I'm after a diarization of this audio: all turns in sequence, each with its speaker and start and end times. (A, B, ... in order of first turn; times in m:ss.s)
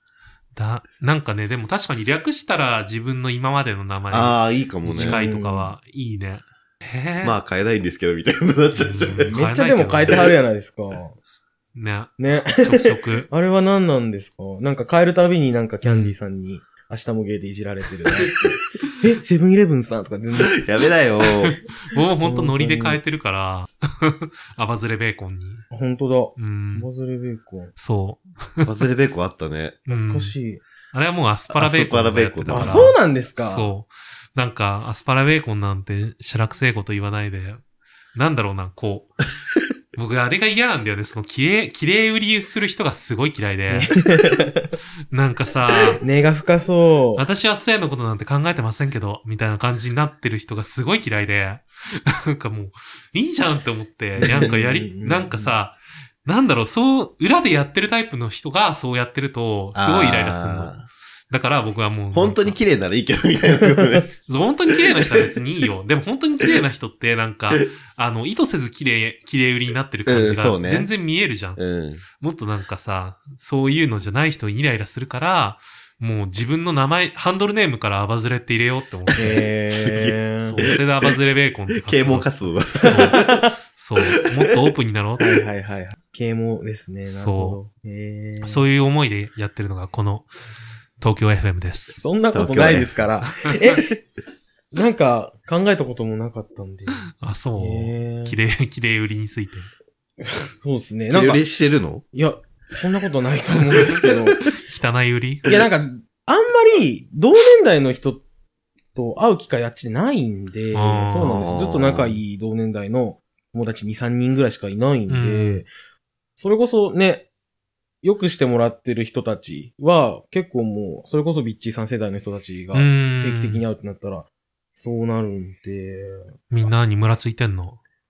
0:00.5-0:07.3 A
0:04.1-0:05.2 B
0:04.9-0:05.7 C
0:07.2-0:09.4 B
0:08.7-0:10.2 A
0:09.3-0:11.2 C
0:11.7-0:13.3 A
0:12.2-0:20.6 C
0:15.8-0:16.1 A
0:20.4-0:21.6 B
0:21.8-0:25.6 A
0:22.2-0:23.0 C
0:25.7-0:27.7 C
0:26.4-0:26.9 A
0:27.8-0:28.7 A
0:28.6-0:29.8 B
0:29.9-0:30.3 A
0:29.9-0:30.6 C
0:30.9-0:37.6 A
0:31.5-0:33.0 B
0:32.5-0:33.7 C
0:38.1-0:39.1 A
0:39.9-0:43.9 A
0:43.7-0:44.7 C
0:45.1-0:46.0 A
0:46.0-0:47.2 C
0:47.2-1:00.8 A
0:54.2-0:55.5 C
0:59.7-1:00.9 B
1:01.3-1:02.6 A
1:02.1-1:04.1 B
1:04.2-1:11.6 A
1:04.9-1:05.3 B
1:10.0-1:10.9 B
1:11.6-1:12.0 B
1:12.2-1:19.5 A
1:19.2-1:20.7 C
1:19.7-1:21.1 B
1:20.4-1:25.2 A
1:21.7-1:23.5 B
1:22.9-1:23.5 C
1:25.2-1:28.6 C
1:27.1-1:27.6 A
1:28.4-1:30.3 A
1:31.0-1:32.0 A
1:32.0-1:33.9 C
1:32.3-1:32.9 B
1:34.7-1:38.4 C
1:37.1-1:39.7 A
1:40.2-1:41.4 C
1:41.1-1:42.0 B
1:42.1-1:44.5 C
1:44.6-1:45.4 A
1:45.4-1:48.2 C
1:48.9-1:55.7 C
1:50.7-1:51.5 A
1:51.2-1:52.2 B
1:55.1-1:55.6 A
1:56.4-1:57.3 C
1:58.0-2:06.4 C
2:02.7-2:03.6 A
2:06.5-2:07.8 A